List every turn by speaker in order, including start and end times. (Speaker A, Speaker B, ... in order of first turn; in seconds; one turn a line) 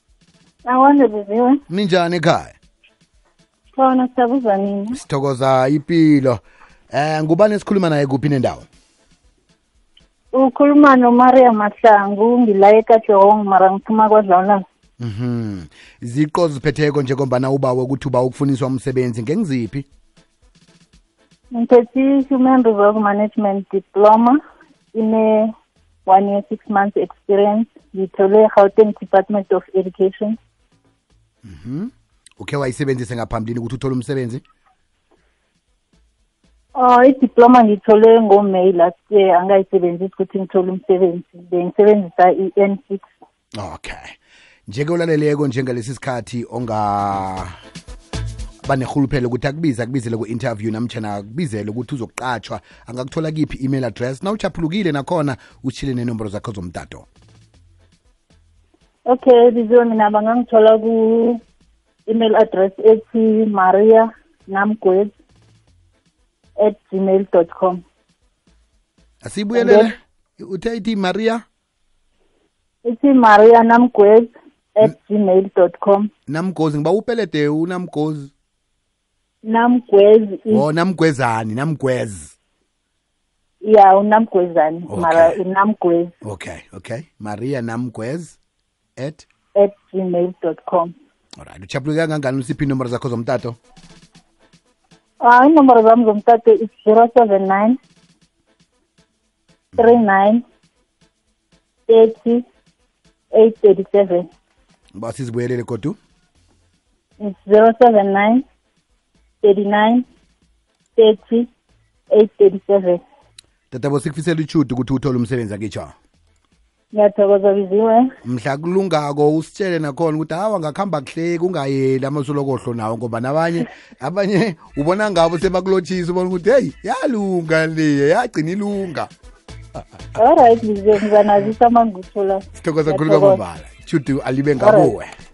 Speaker A: 0.7-1.6
Speaker B: 1.7-2.5
Speaker A: 3.8-5.0
Speaker B: 4.9-6.4
Speaker B: 6.9-8.7
Speaker A: 10.3-14.7
Speaker B: 15.0-19.9
Speaker A: 21.5-24.4
Speaker A: 24.9-25.5
Speaker A: 26.1-30.4
Speaker B: 31.4-34.4
Speaker A: 36.8-43.1
Speaker B: 43.6-44.2
Speaker B: 44.7-47.5
Speaker B: 48.6-57.1
Speaker A: 59.1-61.4
Speaker A: 62.1-65.1
Speaker A: 66.6-67.8
Speaker B: 69.2-71.4
Speaker A: 69.5-69.9
Speaker A: 72.8-76.1
Speaker B: 76.3-78.3
Speaker A: 79.4-80.7
Speaker B: 80.5-82.3
Speaker A: 83.6-86.1
Speaker B: 84.9-85.4
Speaker B: 86.2-88.4
Speaker B: 89.0-89.3
Speaker A: 89.5-90.9
Speaker B: 91.4-93.6
Speaker A: 95.2-97.8
Speaker B: 99.7-100.0
Speaker A: 99.8-100.4
Speaker A: 101.9-102.4
Speaker A: 103.3-104.3
Speaker B: 105.0-106.0
Speaker A: 107.2-108.4
Speaker A: 109.4-110.0
Speaker A: 111.0-111.5
Speaker A: 112.1-113.0
Speaker B: 113.7-115.9
Speaker A: 116.9-118.1
Speaker B: 118.2-129.1
Speaker A: 130.2-133.4
Speaker B: 132.6-135.1
Speaker A: 134.6-134.9